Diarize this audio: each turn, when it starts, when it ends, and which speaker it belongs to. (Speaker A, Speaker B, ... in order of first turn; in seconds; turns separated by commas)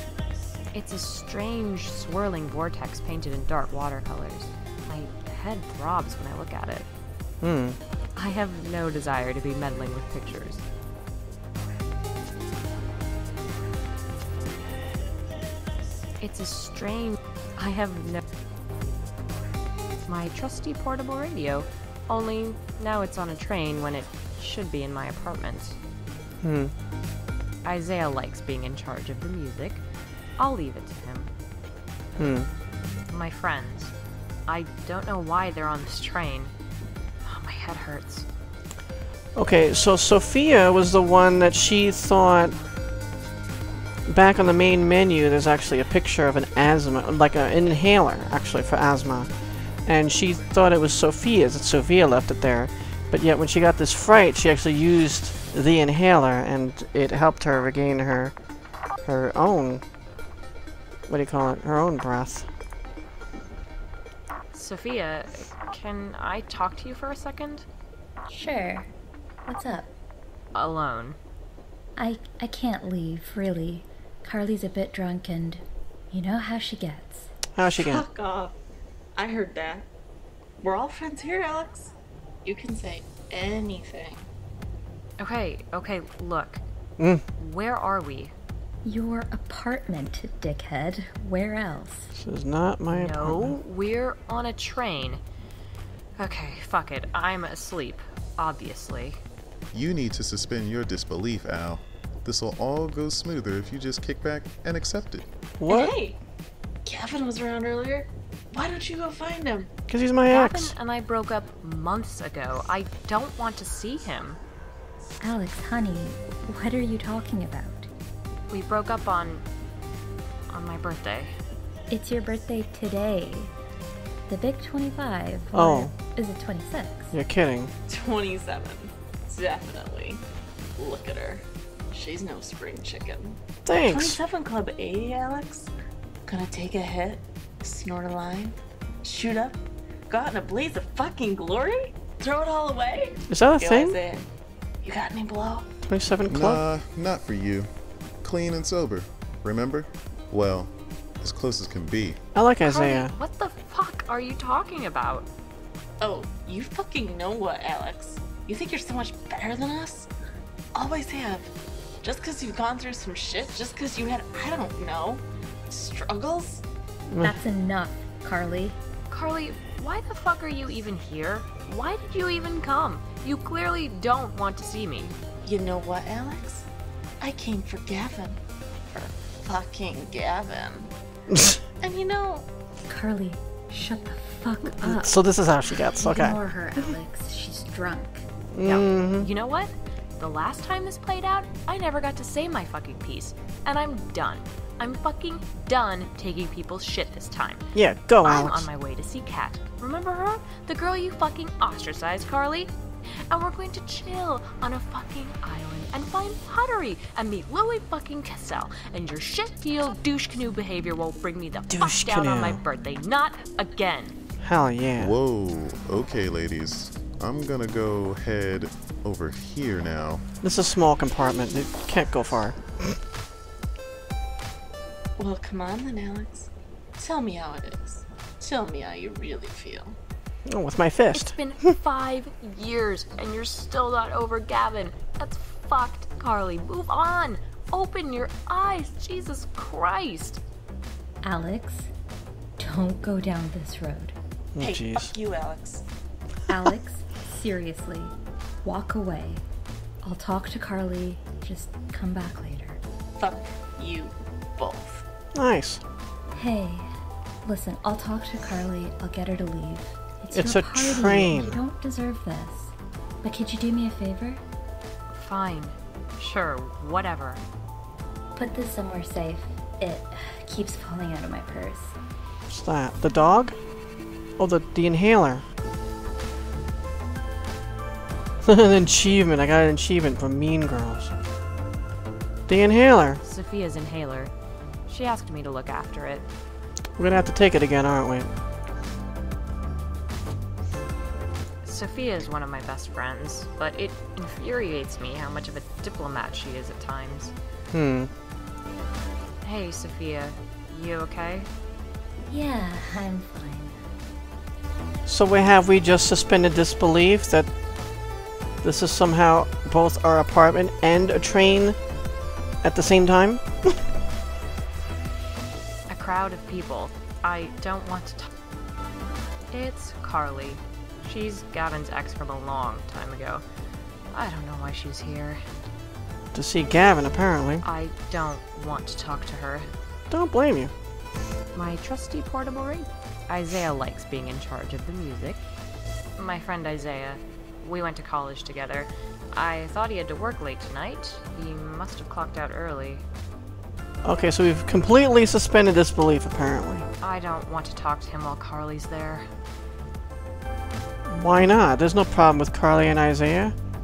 Speaker A: 0.7-6.9, Speaker B: 7.4-7.8, Speaker A: 8.2-10.6, Speaker A: 16.2-18.2, Speaker A: 20.1-25.8, Speaker B: 26.4-26.7, Speaker A: 27.6-29.8, Speaker A: 30.4-31.3, Speaker B: 32.2-32.5, Speaker A: 33.1-33.9, Speaker A: 34.5-36.5, Speaker A: 37.2-38.3, Speaker B: 39.4-42.6, Speaker B: 44.1-49.3, Speaker B: 49.8-58.3, Speaker B: 59.0-59.8, Speaker B: 61.1-62.5, Speaker A: 64.5-67.7, Speaker C: 68.3-68.9, Speaker C: 69.5-69.9, Speaker A: 70.5-71.2, Speaker C: 72.0-77.3, Speaker B: 77.5-78.0, Speaker D: 77.6-78.5, Speaker D: 79.1-79.9, Speaker D: 80.6-81.9, Speaker D: 82.4-84.3, Speaker A: 85.2-86.6, Speaker B: 87.0-87.2, Speaker A: 87.4-88.3, Speaker C: 88.8-92.1, Speaker B: 92.1-93.5, Speaker A: 92.9-95.2, Speaker A: 96.2-99.2, Speaker E: 99.7-105.2, Speaker B: 105.6-105.9, Speaker D: 105.7-106.2, Speaker D: 106.8-109.7, Speaker B: 109.9-110.7, Speaker A: 110.3-114.4, Speaker C: 115.2-117.9, Speaker A: 118.5-119.4, Speaker A: 120.5-121.3, Speaker C: 121.9-123.5, Speaker C: 124.3-127.1, Speaker B: 125.5-125.9, Speaker B: 127.1-127.7, Speaker D: 127.9-130.2, Speaker D: 130.8-135.7, Speaker B: 133.6-134.2, Speaker D: 136.2-144.3, Speaker B: 143.3-144.0, Speaker D: 144.8-145.7, Speaker B: 145.9-146.6, Speaker E: 146.3-147.7, Speaker E: 148.2-152.2, Speaker B: 152.3-153.1, Speaker A: 152.6-155.3, Speaker D: 156.0-160.1, Speaker D: 160.7-166.6, Speaker B: 167.1-167.4, Speaker C: 167.2-168.8, Speaker A: 169.1-175.1, Speaker D: 175.4-176.7, Speaker D: 177.2-178.4, Speaker D: 178.9-180.9, Speaker B: 181.3-181.6, Speaker D: 181.8-182.5, Speaker C: 182.9-188.3, Speaker B: 184.7-186.9, Speaker B: 188.5-189.3, Speaker A: 188.6-197.6, Speaker B: 197.7-198.7, Speaker A: 198.2-214.2, Speaker B: 211.7-212.6, Speaker B: 214.4-215.1, Speaker E: 215.0-220.2, Speaker B: 220.4-223.0, Speaker D: 225.2-230.0, Speaker B: 230.5-231.7, Speaker A: 231.1-240.4, Speaker C: 241.2-241.9, Speaker C: 242.6-244.1, Speaker B: 244.5-245.1, Speaker D: 244.6-245.8, Speaker C: 246.5-249.4, Speaker C: 250.0-252.8, Speaker D: 253.2-255.0, Speaker B: 255.3-255.8, Speaker C: 256.3-256.9, Speaker C: 257.4-264.4, Speaker B: 260.3-261.6, Speaker A: 265.1-267.4, Speaker C: 268.3-271.9, Speaker B: 272.5-273.5, Speaker B: 274.4-275.4, Speaker B: 278.4-281.1, Speaker B: 282.5-283.2, Speaker A: 283.2-284.3, Speaker A: 284.9-286.3, Speaker B: 287.0-288.3, Speaker A: 291.6-297.3, Speaker B: 297.7-298.1, Speaker A: 299.4-301.5, Speaker C: 302.3-303.9, Speaker B: 305.1-307.5, Speaker B: 308.6-311.8, Speaker B: 312.6-313.7, Speaker A: 315.9-318.3, Speaker A: 319.5-323.4, Speaker A: 324.1-325.4, Speaker B: 326.3-327.6, Speaker A: 327.6-329.7, Speaker B: 330.1-330.7, Speaker A: 331.5-335.4, Speaker A: 336.2-343.0, Speaker B: 344.0-346.9, Speaker A: 347.0-349.3, Speaker B: 351.1-353.5